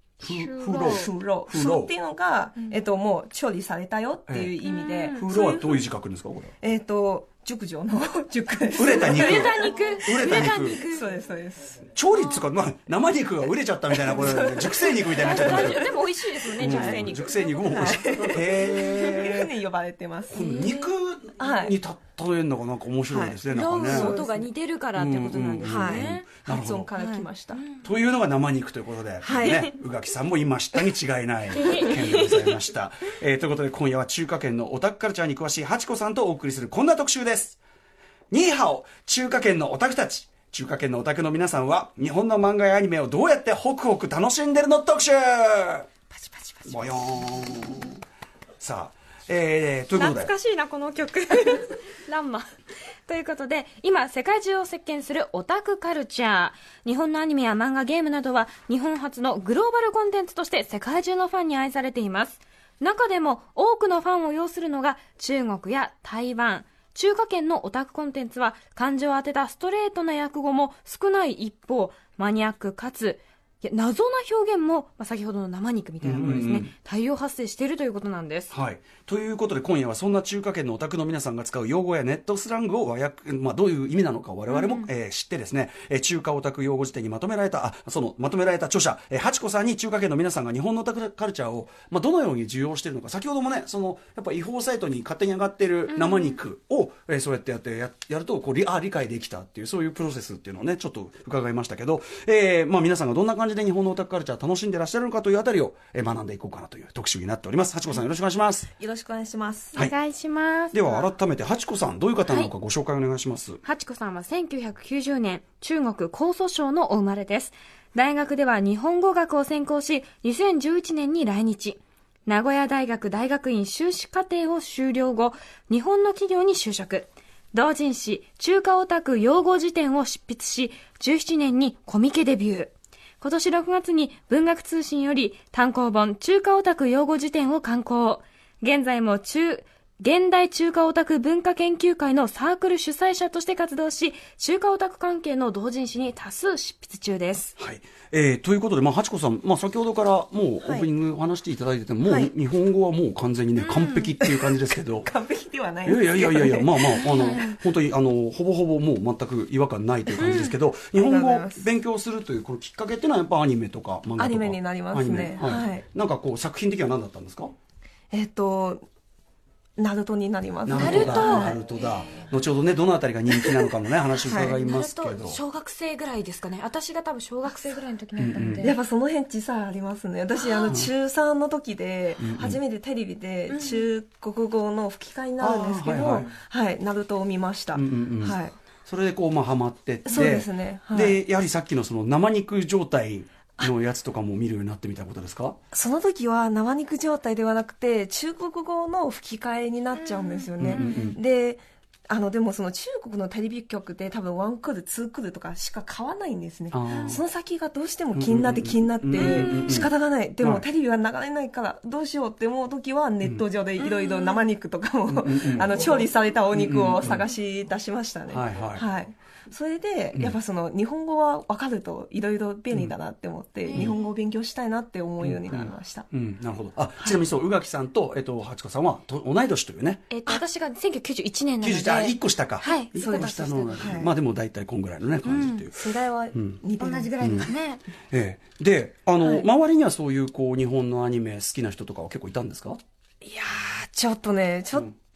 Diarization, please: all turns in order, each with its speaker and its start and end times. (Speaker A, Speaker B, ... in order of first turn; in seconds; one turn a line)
Speaker A: 0.2-1.9
Speaker B: 0.2-1.1
Speaker C: 0.7-5.8
Speaker A: 4.3-4.5
Speaker B: 4.6-5.2
Speaker A: 5.1-6.5
Speaker C: 6.6-11.9
Speaker A: 8.7-10.8
Speaker B: 8.8-11.1
Speaker A: 11.9-15.9
Speaker B: 12.1-12.5
Speaker C: 13.9-16.0
Speaker B: 15.0-19.0
Speaker C: 16.5-17.1
Speaker A: 16.6-19.5
Speaker C: 17.6-20.4
Speaker A: 20.3-24.1
Speaker B: 20.3-20.9
Speaker C: 21.4-21.7
Speaker C: 23.1-24.5
Speaker B: 23.5-26.2
Speaker A: 24.9-26.9
Speaker C: 25.6-27.6
Speaker B: 26.9-27.8
Speaker A: 27.8-37.6
Speaker C: 29.2-29.6
Speaker B: 29.3-29.7
Speaker B: 31.5-32.6
Speaker A: 38.3-45.9
Speaker C: 46.1-47.1
Speaker A: 46.7-48.0
Speaker A: 48.6-50.3
Speaker B: 49.9-52.5
Speaker B: 53.0-78.5
Speaker A: 76.0-76.7
Speaker A: 78.5-108.7
Speaker B: 84.5-84.9
Speaker B: 95.9-96.4
Speaker C: 108.8-109.8
Speaker B: 109.8-111.1
Speaker A: 110.7-113.6
Speaker B: 113.6-147.5
Speaker A: 147.6-155.1
Speaker C: 150.6-150.9
Speaker C: 152.0-152.3
Speaker B: 153.6-154.1
Speaker C: 154.2-157.0
Speaker A: 155.8-167.5
Speaker B: 156.9-157.6
Speaker B: 160.2-160.6
Speaker C: 160.9-161.6
Speaker C: 164.2-165.8
Speaker C: 168.1-168.8
Speaker C: 169.8-171.6
Speaker A: 170.6-175.4
Speaker B: 170.7-172.3
Speaker C: 174.2-174.6
Speaker B: 174.4-178.8
Speaker A: 178.2-178.7
Speaker C: 178.6-188.5
Speaker B: 180.4-180.7
Speaker A: 182.2-182.6
Speaker B: 183.5-183.8
Speaker A: 185.4-186.3
Speaker A: 187.7-195.6
Speaker C: 190.1-191.2
Speaker C: 195.7-226.1
Speaker B: 200.0-201.2
Speaker A: 200.6-201.2
Speaker A: 206.7-207.2
Speaker B: 206.9-207.2
Speaker A: 208.1-210.6
Speaker B: 209.1-209.9
Speaker B: 213.8-214.4
Speaker A: 215.1-217.2
Speaker A: 218.3-218.8
Speaker B: 223.7-224.1
Speaker A: 225.2-230.1
Speaker B: 230.1-233.8
Speaker A: 231.6-236.6
Speaker C: 232.9-234.1
Speaker B: 235.2-235.6
Speaker C: 235.7-237.5
Speaker B: 236.8-237.8
Speaker A: 237.2-237.5
Speaker A: 238.1-242.8
Speaker C: 239.2-239.5
Speaker C: 243.2-244.9